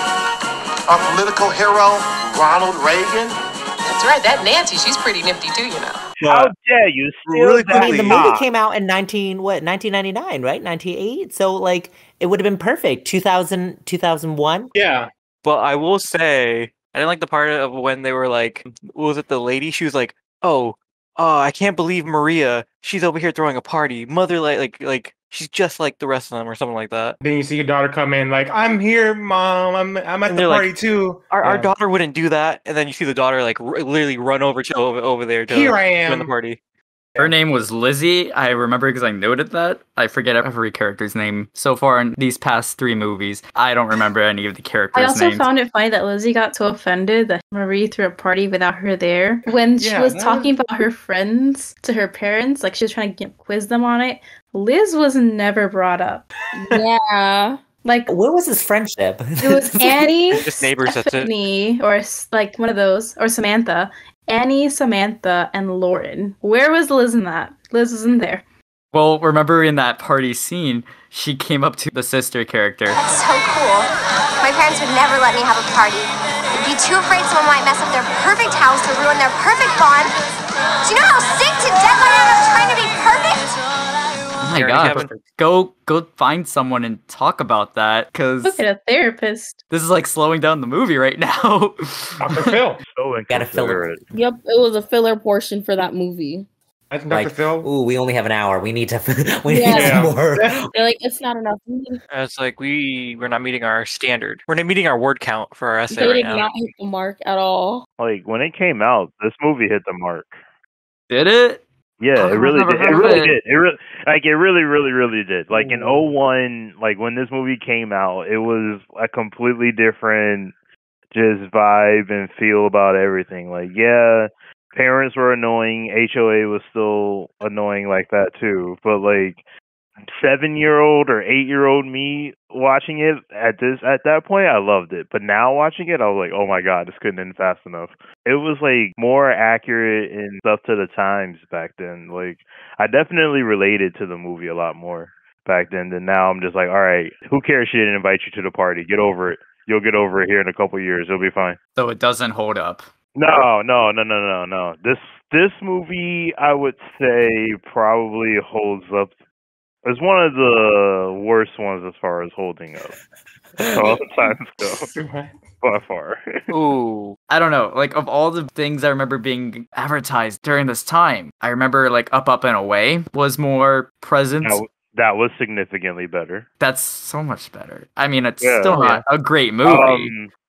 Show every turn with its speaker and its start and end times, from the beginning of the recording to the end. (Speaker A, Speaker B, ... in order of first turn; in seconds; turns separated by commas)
Speaker A: 0.9-3.3, Speaker B: 3.9-6.0, Speaker C: 6.2-6.5, Speaker D: 6.2-8.3, Speaker C: 7.3-8.4, Speaker E: 7.7-14.7, Speaker F: 14.7-15.1, Speaker C: 15.4-27.2, Speaker F: 27.2-31.7, Speaker C: 30.3-30.7, Speaker C: 31.3-36.6, Speaker F: 35.5-36.3, Speaker G: 37.2-45.5, Speaker H: 45.0-56.3, Speaker F: 49.8-50.5, Speaker I: 56.5-57.6, Speaker H: 57.8-58.1, Speaker E: 58.1-60.1, Speaker H: 59.4-68.4, Speaker C: 60.4-61.3, Speaker G: 68.9-73.0, Speaker J: 72.9-73.9, Speaker J: 74.4-80.1, Speaker J: 80.8-83.5, Speaker G: 84.4-88.6, Speaker C: 84.5-85.2, Speaker F: 84.8-85.2, Speaker H: 88.5-89.6, Speaker G: 89.7-92.5, Speaker F: 92.2-92.8, Speaker D: 92.9-94.0, Speaker E: 93.3-93.9, Speaker I: 94.1-96.5, Speaker F: 96.9-97.7, Speaker E: 97.1-100.7, Speaker I: 99.5-100.2, Speaker F: 99.7-100.6, Speaker I: 100.7-102.0, Speaker C: 102.1-106.5, Speaker I: 105.9-107.9, Speaker D: 108.0-110.3, Speaker G: 111.1-111.6, Speaker D: 112.0-120.5, Speaker G: 112.2-113.4, Speaker F: 115.5-116.0, Speaker D: 121.1-129.4, Speaker D: 130.1-151.6, Speaker G: 151.8-152.8, Speaker D: 153.2-159.1, Speaker D: 159.8-163.0, Speaker E: 163.6-164.0, Speaker D: 163.7-164.9, Speaker F: 165.0-165.3, Speaker D: 165.6-166.2, Speaker C: 166.5-167.2, Speaker G: 167.3-174.6, Speaker D: 174.4-176.5, Speaker G: 176.6-180.1, Speaker D: 178.4-179.0, Speaker D: 179.6-180.3